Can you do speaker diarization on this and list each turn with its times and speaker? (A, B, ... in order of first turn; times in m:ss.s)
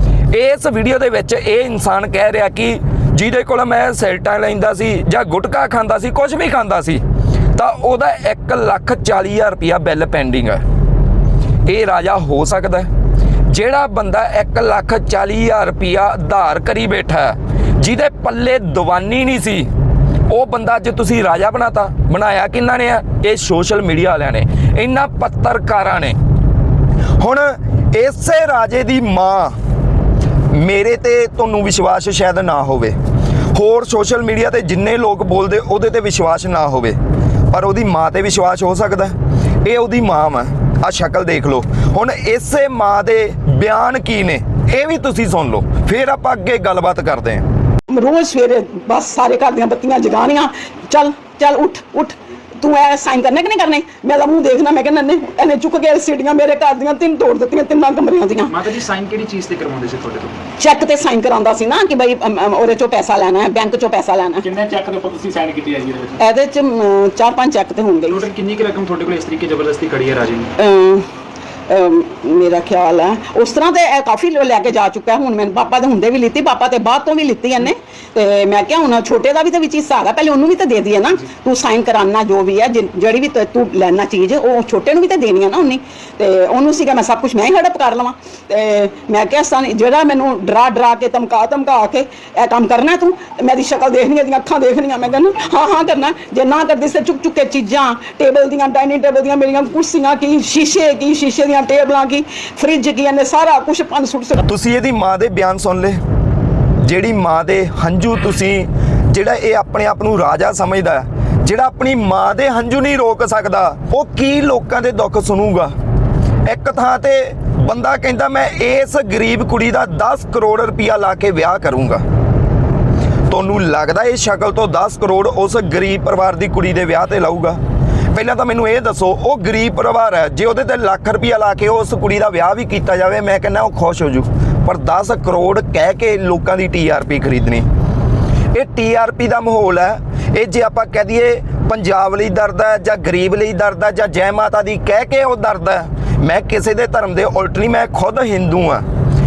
0:00.3-0:07.0 A
0:07.5-0:10.6 A
0:11.6-0:12.9 A
0:13.5-0:19.7 A
0:20.3-0:26.2 A
0:27.2-0:29.6 A
0:30.5-0:33.0 A
0:33.5-0:37.0 A
0:37.5-0:47.5 A
0:47.9-0:58.5 B
0:58.5-1:00.4 C
1:00.6-1:04.5 B
1:04.4-1:06.2 C
1:06.2-1:08.2 B
1:08.1-1:10.5 C
1:10.6-1:11.1 B
1:11.7-1:44.4 B
1:44.5-1:46.0 A
1:46.8-1:55.7 A
1:56.4-2:02.0 A
2:03.3-2:07.6 A
2:08.1-2:17.7 A
2:18.5-2:28.8 A